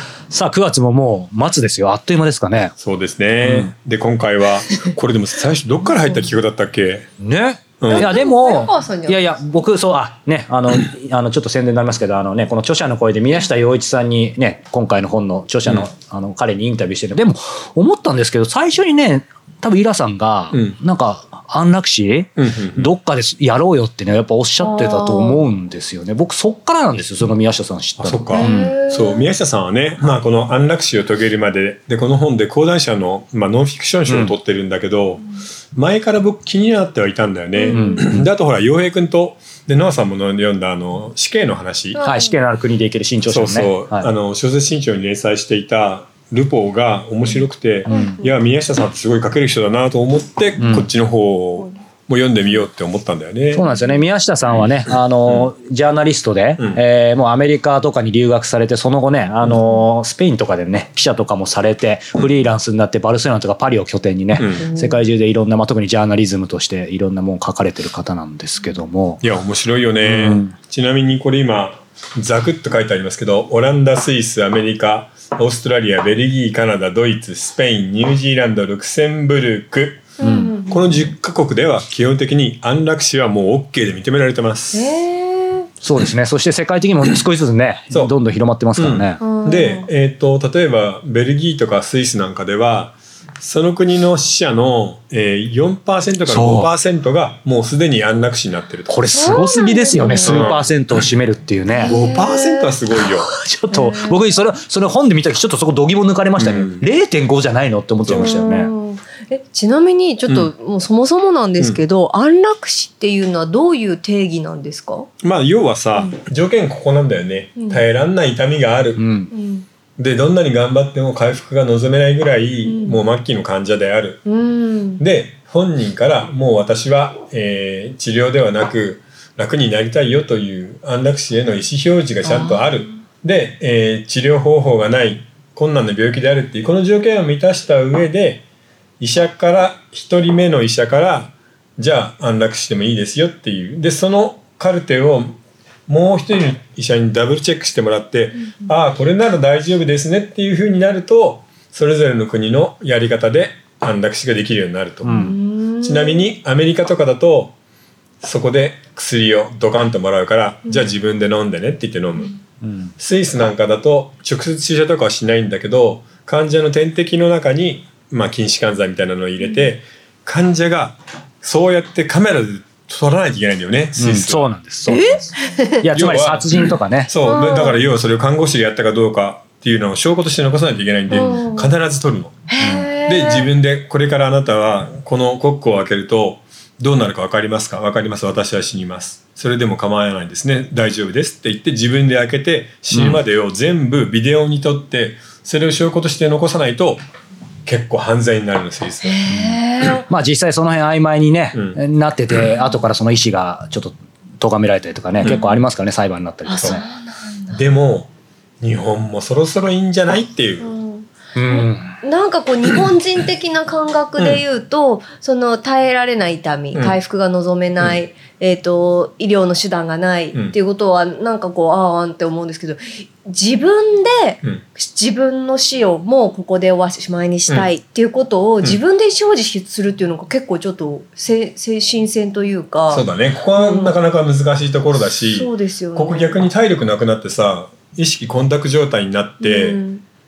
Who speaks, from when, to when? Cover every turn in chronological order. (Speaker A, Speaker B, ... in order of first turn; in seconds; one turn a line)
Speaker A: 0.3-2.7
Speaker B: 2.8-7.1
Speaker A: 3.4-3.7
Speaker A: 7.2-28.7
Speaker B: 7.8-8.2
Speaker C: 7.9-9.5
Speaker B: 22.4-22.9
Speaker C: 24.6-25.4
Speaker B: 28.0-35.2
Speaker C: 28.3-29.3
Speaker A: 34.1-34.3
Speaker B: 35.7-42.0
Speaker C: 37.5-38.0
Speaker A: 37.7-38.3
Speaker C: 41.9-42.4
Speaker A: 42.0-44.1
Speaker B: 43.2-53.6
Speaker A: 47.9-48.2
Speaker C: 47.9-48.4
Speaker A: 50.6-50.9
Speaker A: 53.5-69.2
Speaker B: 64.3-64.6
Speaker C: 64.5-65.1
Speaker B: 69.2-80.1
Speaker A: 70.0-70.5
Speaker C: 80.2-80.9
Speaker A: 80.2-80.5
Speaker B: 80.7-84.9
Speaker C: 84.7-85.7
Speaker A: 85.8-89.2
Speaker B: 88.8-99.4
Speaker C: 89.2-89.9
Speaker A: 96.2-96.7
Speaker A: 98.9-102.0
Speaker C: 99.1-100.6
Speaker B: 100.2-100.6
Speaker C: 101.7-102.7
Speaker B: 101.9-103.3
Speaker A: 103.0-108.7
Speaker C: 103.7-104.2
Speaker B: 106.4-106.8
Speaker B: 108.0-108.3
Speaker C: 108.1-115.1
Speaker B: 115.2-119.0
Speaker C: 117.5-117.8
Speaker A: 119.0-119.3
Speaker C: 119.3-119.7
Speaker B: 120.0-124.2
Speaker C: 122.6-123.0
Speaker C: 124.2-125.0
Speaker B: 125.0-138.4
Speaker C: 132.2-132.8
Speaker B: 139.0-155.2
Speaker A: 155.0-155.3
Speaker C: 155.1-156.2
Speaker B: 155.8-157.5
Speaker B: 158.2-162.3
Speaker A: 162.6-162.9
Speaker B: 163.0-174.5
Speaker C: 169.4-169.7
Speaker A: 174.0-175.2
Speaker C: 174.9-175.8
Speaker A: 175.8-177.1
Speaker B: 175.9-182.4
Speaker C: 177.2-177.8
Speaker C: 181.1-181.7
Speaker C: 182.5-183.5
Speaker A: 182.6-182.9
Speaker B: 183.1-197.0
Speaker A: 192.9-193.2
Speaker B: 197.7-199.2
Speaker C: 199.0-200.1
Speaker A: 200.1-206.8
Speaker B: 201.5-201.8
Speaker C: 205.2-205.6
Speaker C: 206.5-207.6
Speaker B: 207.5-210.7
Speaker C: 210.6-233.0
Speaker A: 211.3-211.9
Speaker B: 214.2-214.4
Speaker B: 232.9-239.8
Speaker C: 233.6-233.9
Speaker C: 235.3-236.4
Speaker C: 239.4-240.0